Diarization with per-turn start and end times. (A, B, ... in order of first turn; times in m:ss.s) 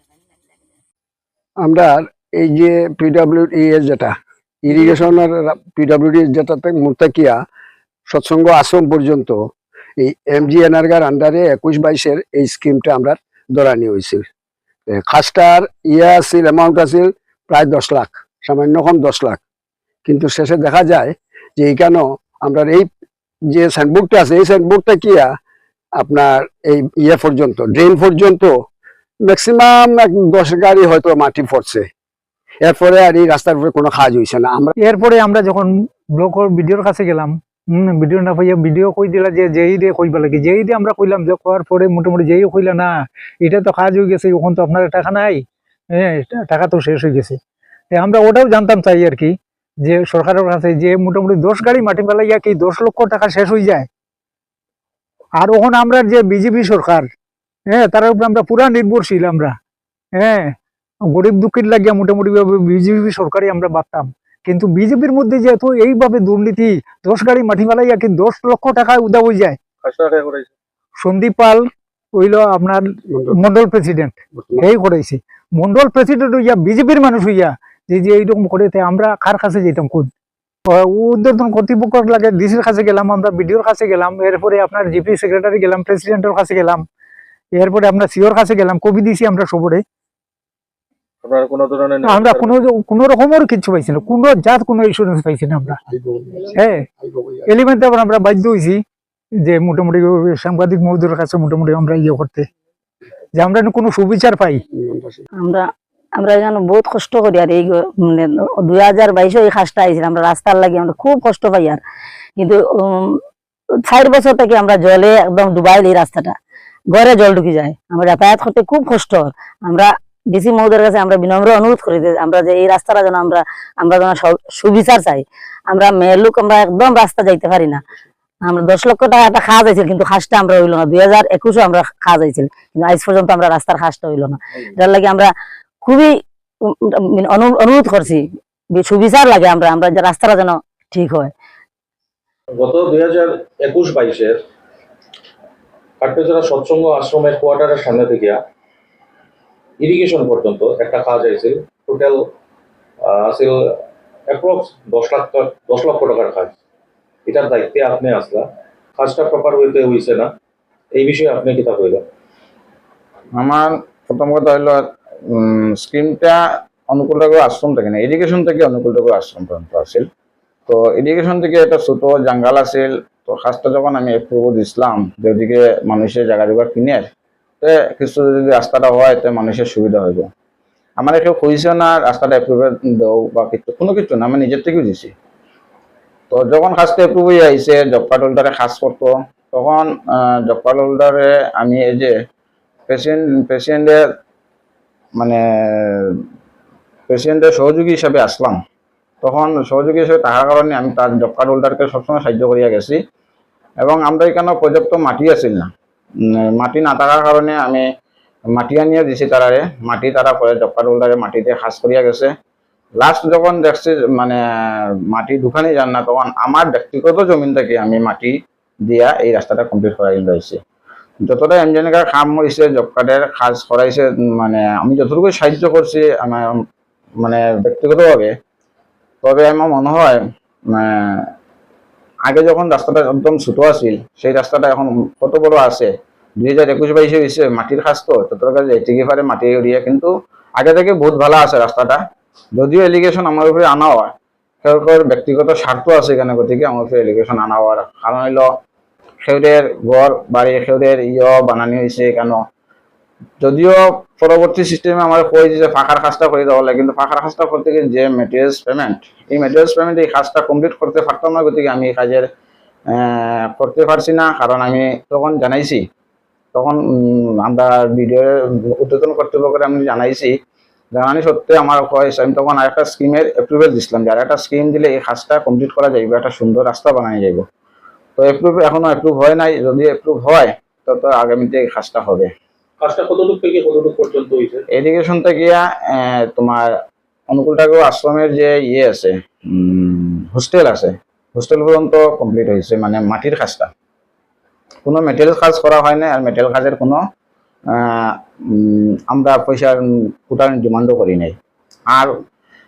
0:01.6-0:07.4 A
0:08.1-0:09.4 A
0:10.0-0:14.2 A
0:14.9-0:19.4 A
0:20.0-0:22.9 A
0:23.5-0:25.3 A
0:26.0-0:28.5 A
0:29.3-0:31.9 A
0:32.6-0:34.7 A
0:34.8-0:42.9 B
0:43.4-0:45.4 B
0:46.0-0:47.4 B
0:47.9-0:49.3 B
0:49.8-0:53.9 B
0:55.4-0:57.1 B
0:57.7-0:59.5 B
1:00.2-1:00.5 B
1:01.1-1:09.6 B
1:09.8-1:10.5 C
1:11.0-1:11.6 B
1:12.2-1:20.1 B
1:13.1-1:13.4 A
1:14.3-1:14.7 A
1:20.7-1:26.8 B
1:27.6-1:29.8 B
1:31.2-1:32.6 C
1:32.0-1:35.8 B
1:35.8-1:37.5 A
1:36.6-1:36.9 B
1:37.5-1:38.8 B
1:39.5-1:42.5 B
1:43.3-1:44.6 B
1:44.8-1:45.2 A
1:45.4-1:51.8 D
1:52.4-1:53.2 D
1:53.9-1:56.4 D
1:56.9-2:07.8 D
2:08.4-2:15.3 D
2:15.8-2:16.1 D
2:17.1-2:21.3 D
2:22.6-2:24.4 C
2:26.0-2:28.4 C
2:29.8-2:32.2 C
2:33.0-2:33.6 C
2:34.3-2:36.5 C
2:37.2-2:38.4 C
2:39.0-2:40.3 C
2:41.0-2:42.0 C
2:43.3-2:44.8 E
2:45.3-2:50.0 E
2:50.7-2:57.1 E
2:57.6-3:00.3 E
3:01.0-3:05.1 E
3:06.3-3:12.1 E
3:12.9-3:14.0 E
3:15.2-3:16.1 E
3:17.1-3:18.6 E
3:19.2-3:23.0 E
3:23.8-3:25.7 E
3:26.4-3:27.8 E
3:28.5-3:32.3 E
3:33.0-3:34.4 E
3:35.1-3:40.6 E
3:41.2-3:46.6 E
3:47.2-3:48.3 E
3:49.2-3:50.2 E
3:50.7-3:51.3 E
3:52.2-4:02.0 E
4:02.6-4:04.1 E
4:04.6-4:08.5 E
4:09.2-4:12.4 E
4:13.4-4:22.3 E
4:22.9-4:25.8 E
4:26.5-4:30.3 E
4:30.9-4:37.4 E
4:38.2-4:42.3 E
4:42.8-4:44.6 C
4:44.7-4:46.7 E
4:47.3-4:53.7 E
4:54.8-4:57.0 E
4:57.7-5:01.3 E